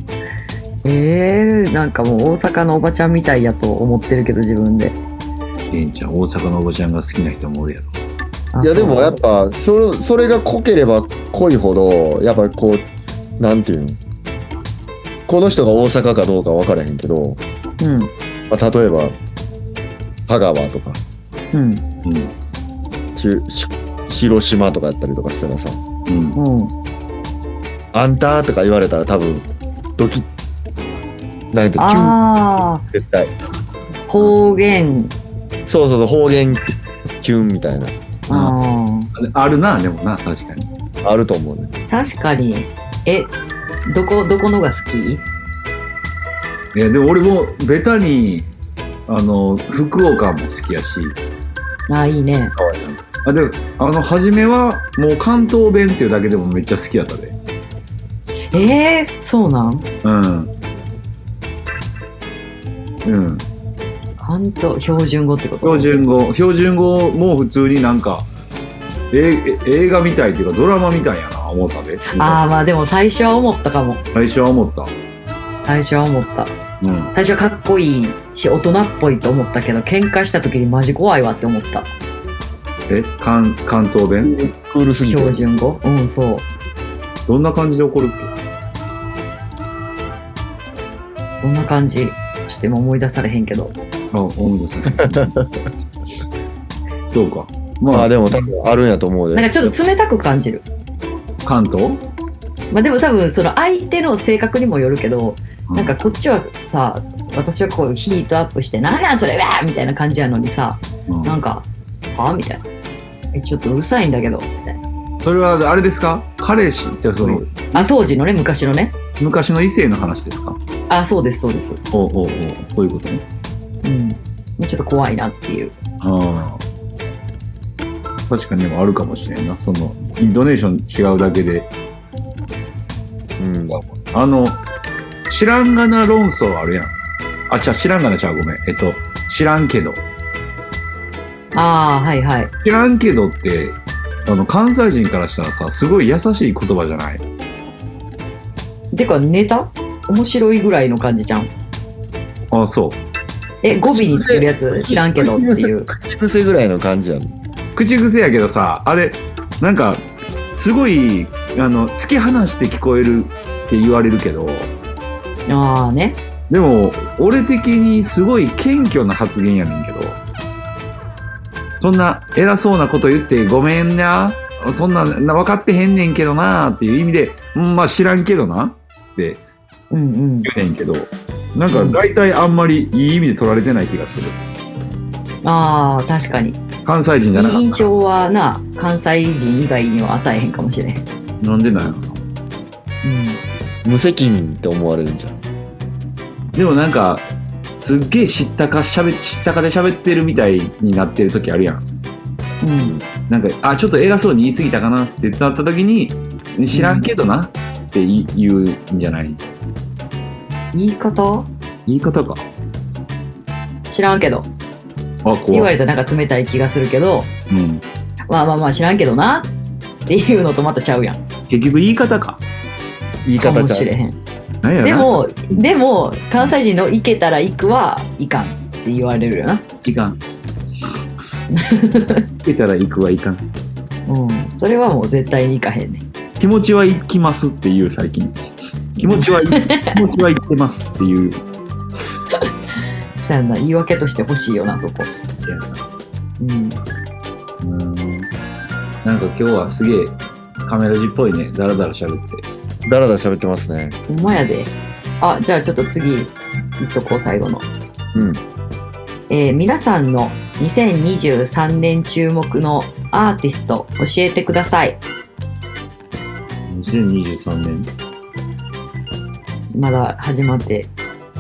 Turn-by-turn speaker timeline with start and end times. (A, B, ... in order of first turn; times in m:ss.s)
0:00.8-0:05.0 A
0:05.7-0:08.0 B
0:08.5-0:09.2 A
0:08.6-0:12.9 C
0:13.4-0:14.0 C
0:15.3-0:17.4 C
0:17.8-0:18.1 A
0:18.5-0:19.2 C
0:20.3-0:21.0 C
0:21.5-0:21.8 A
0:22.0-0:22.3 B
0:23.2-0:25.8 C
0:26.1-0:26.4 B
0:26.4-0:26.7 A
0:27.9-0:30.3 C
0:31.5-0:33.4 C
0:31.8-0:32.8 A
0:34.1-0:35.1 A
0:35.7-0:38.0 C
0:38.3-0:39.1 A
0:38.3-0:38.6 B
0:39.2-0:40.7 B
0:41.0-0:41.7 C
0:41.9-0:43.3 A
0:43.9-0:45.2 A
0:46.7-0:48.5 B
0:49.1-0:51.2 B
0:51.9-0:52.6 A
0:52.8-0:57.4 B
0:58.5-0:59.8 A
1:00.0-1:00.5 B
1:03.0-1:03.5 B
1:04.2-1:06.0 A
1:05.6-1:08.3 B
1:09.1-1:12.4 B
1:12.1-1:14.0 A
1:14.1-1:14.9 B
1:15.7-1:16.5 A
1:16.8-1:17.1 B
1:17.1-1:21.9 A
1:22.9-1:24.4 B
1:24.2-1:25.4 C
1:25.1-1:26.4 A
1:27.3-1:28.3 B
1:31.4-1:33.7 A
1:34.1-1:35.3 B
1:35.0-1:35.5 C
1:37.1-1:38.1 B
1:37.9-1:39.7 C
1:39.4-1:40.6 A
1:41.4-1:42.0 B
1:42.7-1:52.6 A
1:45.7-1:46.1 B
1:51.1-1:51.4 B
1:53.3-1:54.8 A
1:55.2-1:57.9 B
1:57.2-1:58.9 A
1:59.2-2:00.6 B
2:00.9-2:01.8 A
2:01.9-2:03.2 B
2:03.8-2:05.8 A
2:06.0-2:06.6 B
2:08.3-2:11.7 B
2:13.4-2:13.8 C
2:13.7-2:14.6 B
2:15.3-2:17.0 B
2:17.5-2:20.0 B
2:21.5-2:22.5 A
2:22.6-2:27.2 B
2:28.9-2:31.5 A
2:32.5-2:33.0 B
2:33.6-2:35.9 A
2:33.8-2:37.3 C
2:37.8-2:40.0 B
2:40.6-2:44.7 B
2:45.5-2:46.2 A
2:46.5-2:50.2 B
2:51.8-2:59.4 B
2:59.9-3:00.5 A
3:00.4-3:04.4 B
3:01.7-3:02.0 A
3:05.4-3:06.6 A
3:06.8-3:07.8 B
3:07.4-3:11.0 A
3:11.4-3:12.2 B
3:13.0-3:13.4 A
3:13.8-3:15.4 C
3:16.6-3:17.3 B
3:17.8-3:21.8 B
3:22.6-3:23.0 A
3:22.8-3:23.0 C
3:23.3-3:29.4 B
3:26.7-3:27.1 A
3:30.7-3:31.5 A
3:31.9-3:32.4 B
3:33.9-3:34.5 A
3:35.2-3:35.7 B
3:35.5-3:37.3 A
3:37.5-3:37.8 B
3:38.3-3:39.5 A
3:40.1-3:41.2 A
3:41.5-3:42.4 B
3:43.2-3:43.9 C
3:43.4-3:44.2 A
3:44.6-3:45.7 B
3:44.8-3:49.6 A
3:49.8-3:50.2 B
3:51.5-3:52.2 A
3:52.4-3:53.4 B
3:54.1-3:56.0 A
3:56.4-3:58.4 B
3:59.0-4:01.4 B
3:59.0-3:59.9 A
4:03.2-4:05.1 A
4:05.4-4:05.8 B
4:06.4-4:06.8 A
4:07.6-4:08.3 B
4:09.0-4:12.4 B
4:12.8-4:14.0 C
4:14.1-4:17.7 A
4:18.1-4:18.4 C
4:19.3-4:25.0 A
4:26.7-4:27.9 B
4:29.7-4:30.9 A